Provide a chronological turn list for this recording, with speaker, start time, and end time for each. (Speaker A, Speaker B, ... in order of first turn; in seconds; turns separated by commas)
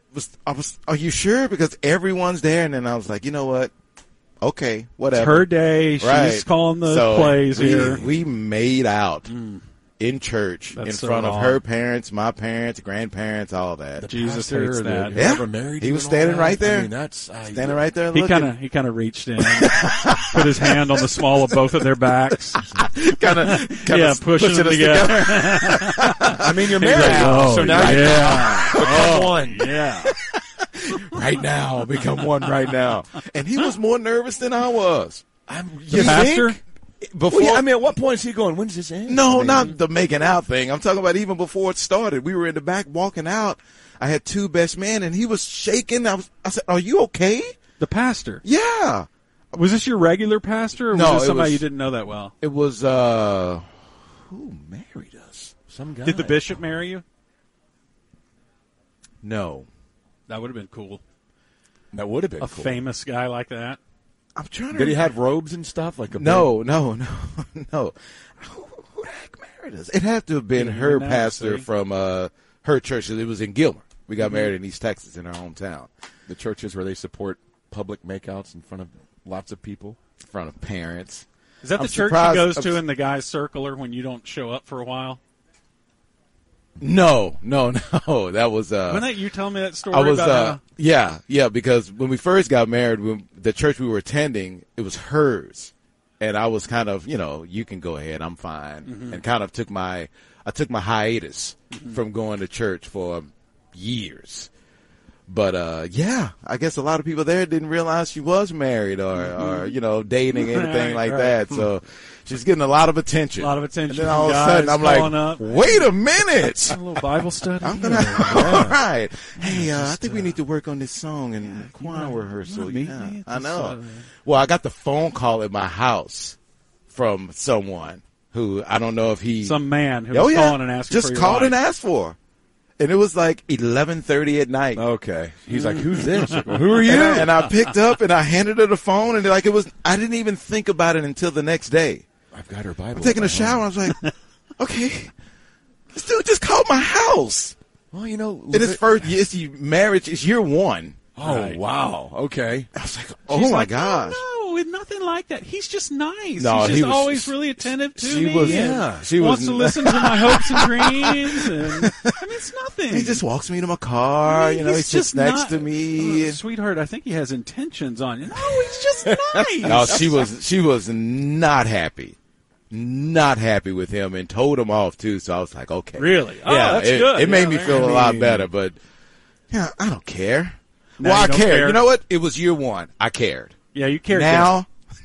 Speaker A: 0.1-3.7, Speaker A: 4.4-5.5, Speaker B: 5.1-8.0, Speaker A: 6.0-9.3, Speaker C: 7.5-8.2, Speaker B: 9.3-9.6, Speaker A: 10.0-14.1, Speaker B: 10.7-11.6, Speaker C: 14.0-17.9, Speaker B: 14.1-15.2, Speaker A: 15.1-16.9, Speaker A: 17.5-18.5, Speaker B: 18.1-22.6, Speaker A: 19.5-20.4, Speaker A: 22.7-28.9, Speaker B: 23.4-30.1, Speaker C: 26.4-29.7, Speaker A: 30.1-35.3, Speaker C: 35.5-36.6, Speaker A: 35.9-36.3, Speaker B: 35.9-36.6, Speaker A: 37.1-37.6, Speaker C: 37.3-39.7, Speaker A: 39.1-47.5, Speaker B: 47.8-48.4, Speaker A: 48.4-49.1, Speaker B: 49.5-52.3, Speaker A: 50.9-51.6, Speaker A: 52.4-53.7, Speaker A: 54.3-55.5, Speaker C: 55.7-56.6, Speaker B: 56.0-57.0, Speaker A: 59.2-59.7, Speaker B: 60.3-61.0, Speaker C: 61.9-62.8, Speaker B: 62.4-63.8, Speaker A: 64.4-65.0, Speaker C: 64.7-66.5, Speaker A: 66.1-75.9, Speaker B: 70.5-71.7, Speaker B: 74.2-74.5, Speaker C: 76.3-80.0, Speaker A: 80.3-81.2, Speaker B: 81.6-85.2, Speaker A: 81.8-82.8, Speaker A: 86.8-89.1, Speaker B: 88.9-90.6, Speaker A: 89.9-104.5, Speaker B: 98.9-99.2, Speaker A: 105.3-116.8, Speaker B: 109.2-109.7, Speaker B: 110.3-111.5, Speaker B: 113.4-116.0, Speaker B: 116.5-118.7, Speaker A: 117.6-126.4, Speaker C: 118.2-118.8, Speaker B: 119.3-120.4, Speaker B: 121.4-124.0, Speaker A: 126.9-129.6, Speaker B: 129.4-131.6, Speaker A: 130.1-132.2, Speaker A: 132.8-134.8, Speaker C: 134.8-137.3, Speaker B: 135.5-136.5, Speaker A: 136.8-142.1, Speaker C: 142.3-143.7, Speaker A: 143.0-144.0, Speaker A: 144.6-145.1, Speaker A: 145.9-147.6, Speaker C: 147.9-148.9, Speaker A: 148.5-151.0, Speaker C: 151.2-152.7, Speaker B: 151.2-151.6, Speaker A: 152.8-154.2, Speaker B: 153.3-163.2, Speaker A: 156.4-162.2, Speaker C: 158.4-159.1, Speaker A: 162.9-166.4, Speaker B: 164.2-170.1, Speaker C: 169.0-170.2, Speaker A: 169.6-172.2, Speaker A: 172.7-178.8, Speaker B: 176.0-178.5, Speaker A: 179.5-183.5, Speaker B: 181.0-181.8, Speaker B: 183.7-184.6, Speaker A: 184.1-184.7